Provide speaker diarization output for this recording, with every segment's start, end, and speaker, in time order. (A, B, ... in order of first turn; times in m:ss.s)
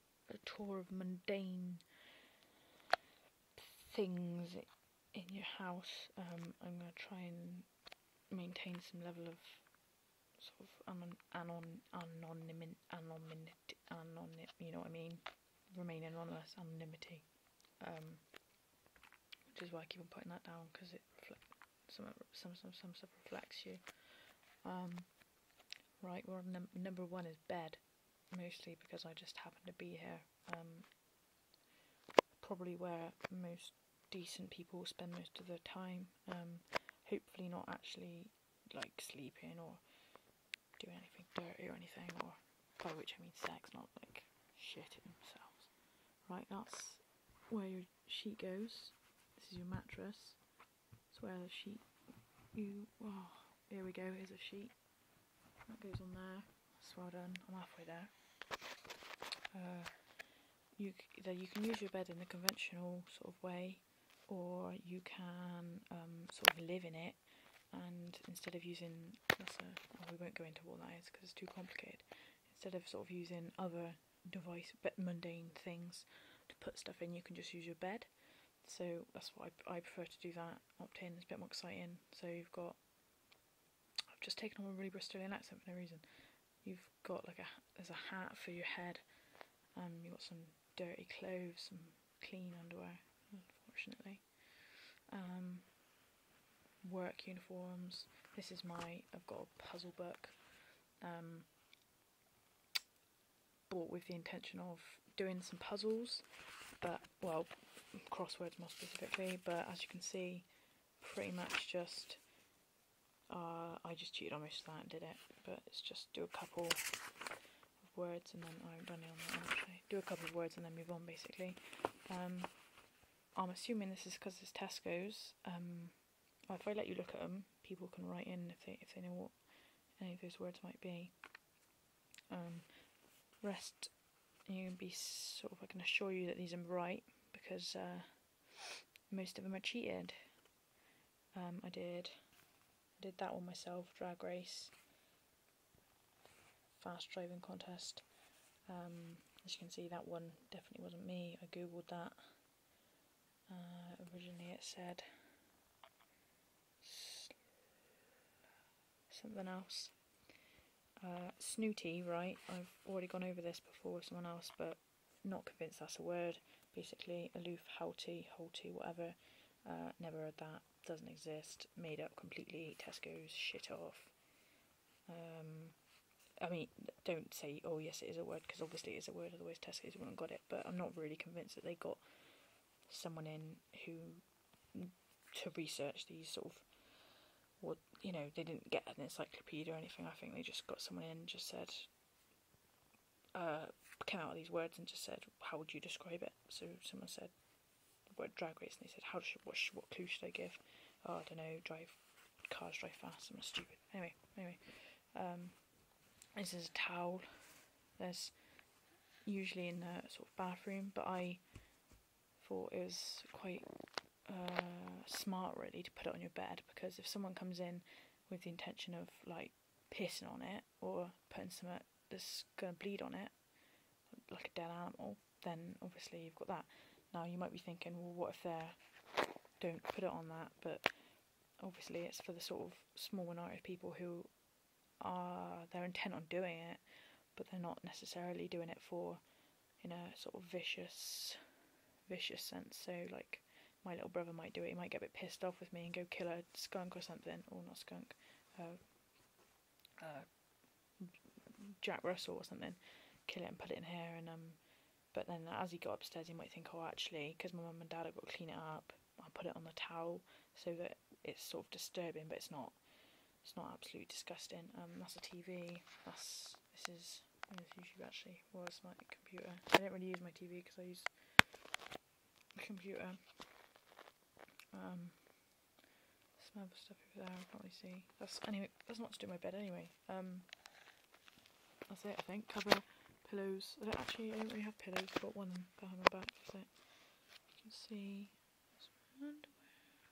0:00.3-0:02.0 A
0:03.6-0:09.8 A
0:10.3-0:18.3 A
0:19.5-0:25.2 A
0:26.0-0:31.0 A
0:32.3-0:40.2 A
0:40.8-0:50.4 A
0:51.1-0:54.9 A
0:55.7-0:58.6 A
0:59.5-1:22.9 A
1:24.2-1:35.9 A
1:36.8-1:41.6 A
1:43.7-1:52.3 A
1:53.3-1:57.1 A
1:57.8-2:02.8 A
2:03.3-2:11.2 A
2:12.3-2:20.5 A
2:21.3-2:22.5 A
2:23.0-2:24.8 A
2:26.7-2:32.6 A
2:33.5-2:35.4 A
2:36.8-2:37.4 A
2:39.1-2:40.2 A
2:41.0-2:54.3 A
2:55.1-3:12.0 A
3:13.3-3:31.7 A
3:32.4-3:43.7 A
3:44.3-4:01.4 A
4:02.0-4:09.3 A
4:10.0-4:31.7 A
4:32.6-4:33.8 A
4:34.7-4:35.6 A
4:36.3-4:40.6 A
4:41.9-4:49.9 A